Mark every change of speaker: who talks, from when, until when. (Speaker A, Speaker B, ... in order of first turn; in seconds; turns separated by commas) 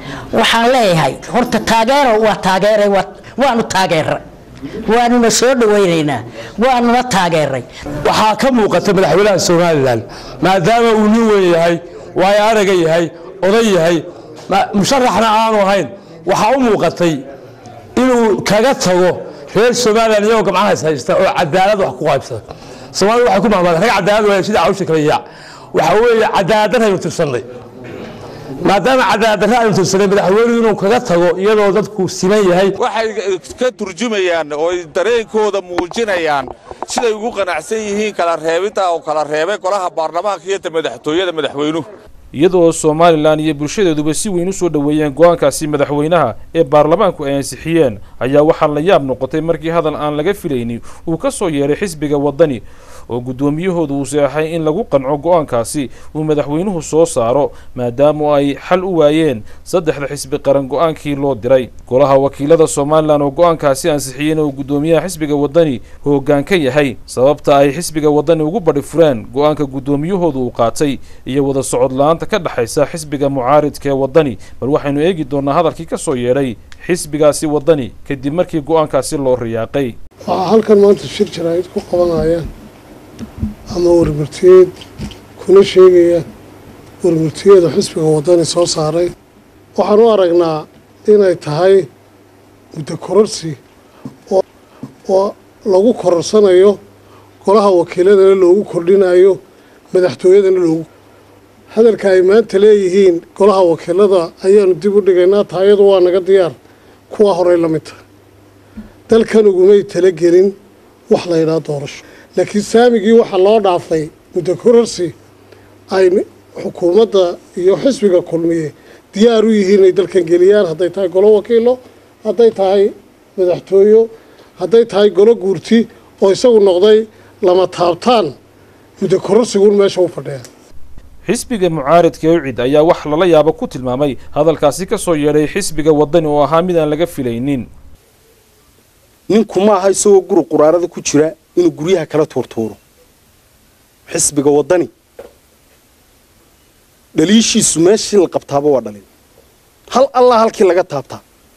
Speaker A: 0.3-4.2, Speaker A: 4.8-7.7, Speaker B: 8.0-17.2, Speaker B: 17.9-22.4, Speaker B: 22.9-25.2, Speaker B: 25.7-27.4, Speaker B: 28.6-32.7, Speaker C: 32.8-41.9, Speaker D: 42.3-79.9, Speaker E: 80.3-82.5, Speaker E: 83.7-84.7, Speaker E: 85.4-86.2, Speaker E: 87.0-89.1, Speaker E: 89.7-91.9, Speaker E: 92.7-93.6, Speaker E: 95.1-96.8, Speaker E: 97.4-99.4, Speaker E: 99.9-100.9, Speaker E: 101.7-106.6, Speaker E: 107.1-108.0, Speaker E: 109.1-110.5, Speaker E: 111.1-115.1, Speaker E: 115.9-128.3, Speaker E: 129.0-130.4, Speaker D: 131.2-137.7, Speaker F: 139.3-142.8, Speaker F: 144.1-144.9, Speaker F: 147.2-149.0, Speaker F: 149.9-151.2